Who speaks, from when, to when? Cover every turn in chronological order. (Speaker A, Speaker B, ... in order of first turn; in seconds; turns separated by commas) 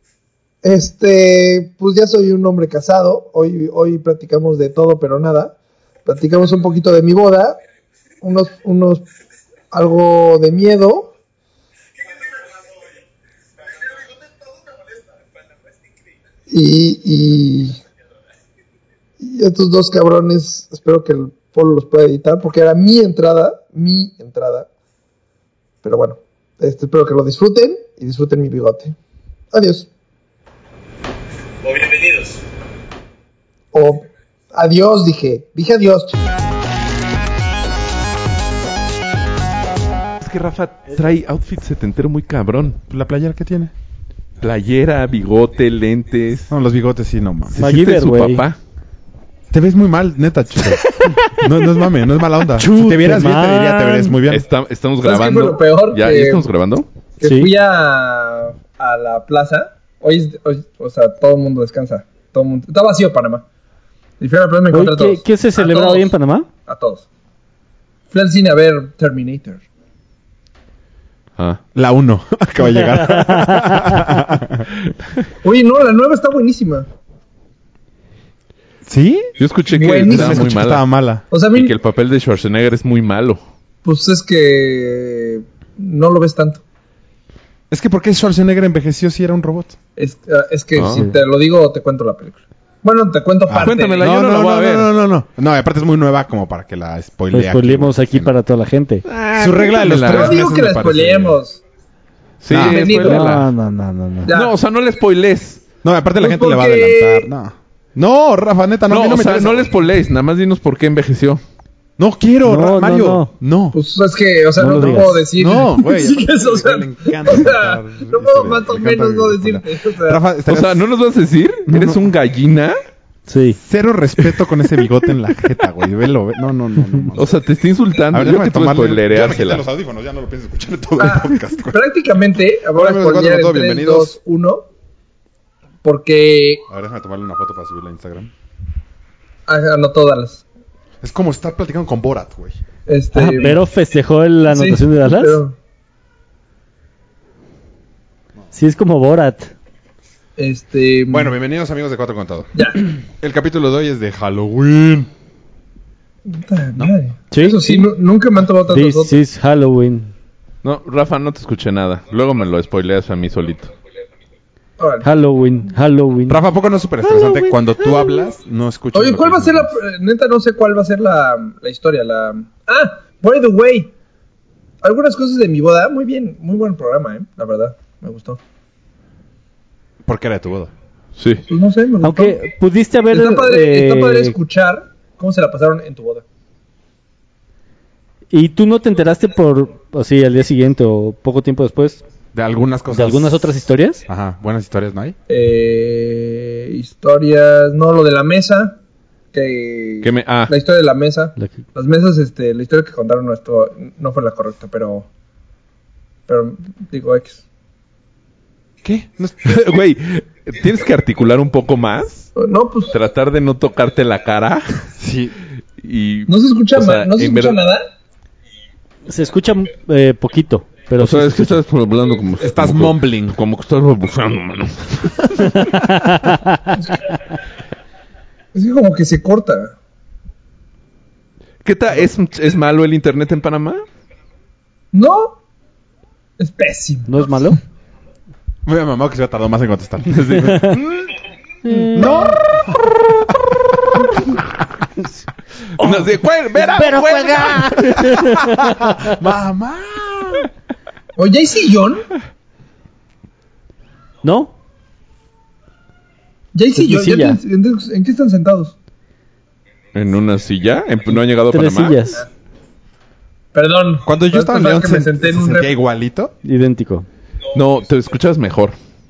Speaker A: 0.6-7.6, Speaker A: 8.2-9.1, Speaker A: 9.7-11.1, Speaker A: 16.5-17.8, Speaker A: 19.2-24.7, Speaker A: 25.8-28.9, Speaker A: 29.5-29.9, Speaker A: 33.7-36.2, Speaker B: 40.2-42.8, Speaker C: 42.9-43.7, Speaker B: 44.4-46.5, Speaker C: 46.5-47.7, Speaker D: 47.6-48.4, Speaker B: 47.6-48.6, Speaker C: 49.5-54.5, Speaker D: 52.6-54.2, Speaker B: 54.3-56.9, Speaker A: 55.0-56.5, Speaker A: 57.2-63.5, Speaker D: 57.2-57.5, Speaker A: 64.2-66.1, Speaker D: 64.7-66.5, Speaker A: 66.7-67.0, Speaker A: 68.1-69.6, Speaker C: 71.8-74.7, Speaker D: 72.7-74.1, Speaker A: 75.4-76.9, Speaker C: 78.9-79.3, Speaker B: 79.4-80.9, Speaker A: 79.7-80.5, Speaker C: 80.1-81.2, Speaker A: 81.3-81.7, Speaker B: 81.5-83.4, Speaker A: 83.8-86.6, Speaker C: 87.7-89.8, Speaker A: 90.0-94.0, Speaker B: 90.7-91.0, Speaker C: 93.5-98.3, Speaker B: 93.6-94.9, Speaker D: 97.3-99.0, Speaker B: 99.1-100.4, Speaker C: 99.3-101.4, Speaker A: 99.9-101.6, Speaker B: 102.4-103.5, Speaker C: 102.5-102.9, Speaker A: 102.5-103.3, Speaker D: 103.0-104.3, Speaker A: 104.2-104.5, Speaker B: 104.3-105.6, Speaker C: 105.8-109.7, Speaker A: 106.2-107.3, Speaker B: 108.9-111.4, Speaker C: 112.0-113.8, Speaker D: 112.5-113.3, Speaker A: 113.7-120.2, Speaker D: 114.6-115.2, Speaker C: 115.4-120.8, Speaker B: 120.5-122.8, Speaker C: 121.7-122.1, Speaker D: 123.3-123.6, Speaker C: 123.6-127.3, Speaker B: 127.2-129.6, Speaker C: 128.1-131.8, Speaker A: 131.0-134.7, Speaker C: 132.7-134.2, Speaker A: 135.8-136.6, Speaker C: 136.7-138.3, Speaker A: 139.5-140.4, Speaker C: 141.0-142.6, Speaker A: 142.9-143.6, Speaker D: 143.1-145.4, Speaker A: 144.5-145.6, Speaker D: 148.5-149.5, Speaker A: 150.4-151.3, Speaker C: 151.1-152.5, Speaker A: 152.6-152.8, Speaker C: 153.2-155.1, Speaker A: 156.3-159.2, Speaker D: 157.3-157.9, Speaker D: 158.7-160.1, Speaker B: 160.6-163.7, Speaker A: 164.8-165.1, Speaker D: 165.0-166.4, Speaker C: 166.3-169.7, Speaker D: 167.1-168.2, Speaker A: 168.9-173.9, Speaker A: 174.8-178.4, Speaker C: 180.1-180.7, Speaker B: 181.2-181.4, Speaker A: 181.5-182.4, Speaker D: 182.0-184.3, Speaker A: 183.1-186.2, Speaker D: 188.3-192.0, Speaker C: 192.3-193.4, Speaker D: 192.9-194.1, Speaker C: 194.1-195.2, Speaker A: 195.3-198.8, Speaker A: 199.3-205.1, Speaker B: 200.0-200.5, Speaker A: 206.3-207.4, Speaker C: 208.8-209.6, Speaker B: 209.4-212.3, Speaker A: 212.3-212.9, Speaker B: 212.9-214.8, Speaker C: 215.0-215.3, Speaker B: 215.8-217.6, Speaker A: 216.3-217.8, Speaker D: 219.1-221.6, Speaker B: 221.0-225.5, Speaker C: 222.4-223.4, Speaker D: 225.5-226.8, Speaker A: 228.5-229.7, Speaker B: 231.6-233.8, Speaker A: 234.9-235.3, Speaker A: 236.4-237.5, Speaker D: 237.1-237.6, Speaker C: 238.7-240.8, Speaker B: 240.1-241.1, Speaker D: 240.4-240.8, Speaker D: 241.7-242.6, Speaker C: 241.9-244.5, Speaker B: 245.8-247.7, Speaker C: 245.8-246.1, Speaker D: 246.7-249.1, Speaker C: 246.8-250.5, Speaker A: 251.2-252.1, Speaker D: 254.2-254.5, Speaker A: 256.5-258.7, Speaker D: 256.8-257.4, Speaker B: 259.9-262.1, Speaker D: 261.5-262.2, Speaker A: 263.5-265.7, Speaker C: 264.0-266.3, Speaker D: 266.4-267.1, Speaker B: 267.5-268.8